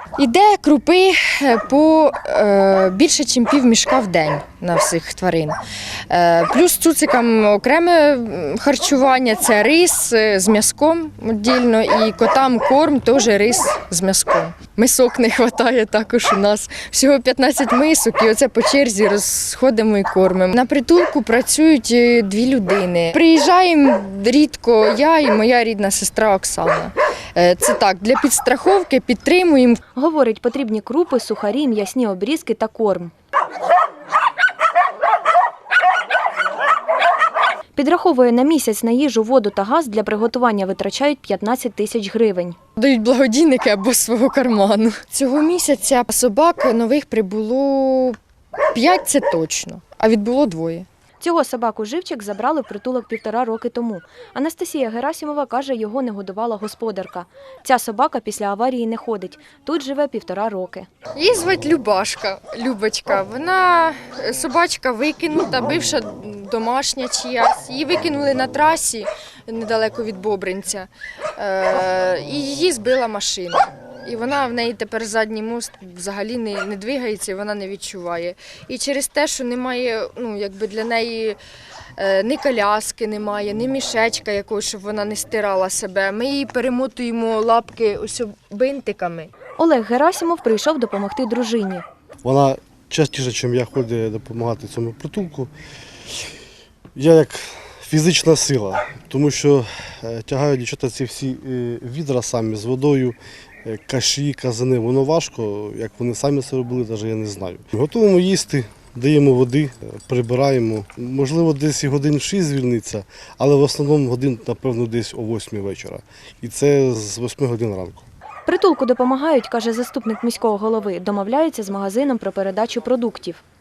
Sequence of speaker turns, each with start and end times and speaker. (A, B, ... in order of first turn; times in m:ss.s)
0:00.2-0:05.6 A
0:06.1-0:29.8 A
0:30.0-0:33.1 B
0:37.8-0:42.6 B
0:42.8-0:48.2 A
0:48.7-0:50.9 A
0:51.2-1:00.9 B
1:01.2-1:21.4 A
1:22.0-1:29.3 A
1:29.6-1:31.8 B
1:32.2-1:35.5 C
1:37.0-1:58.0 C
1:58.4-2:03.4 B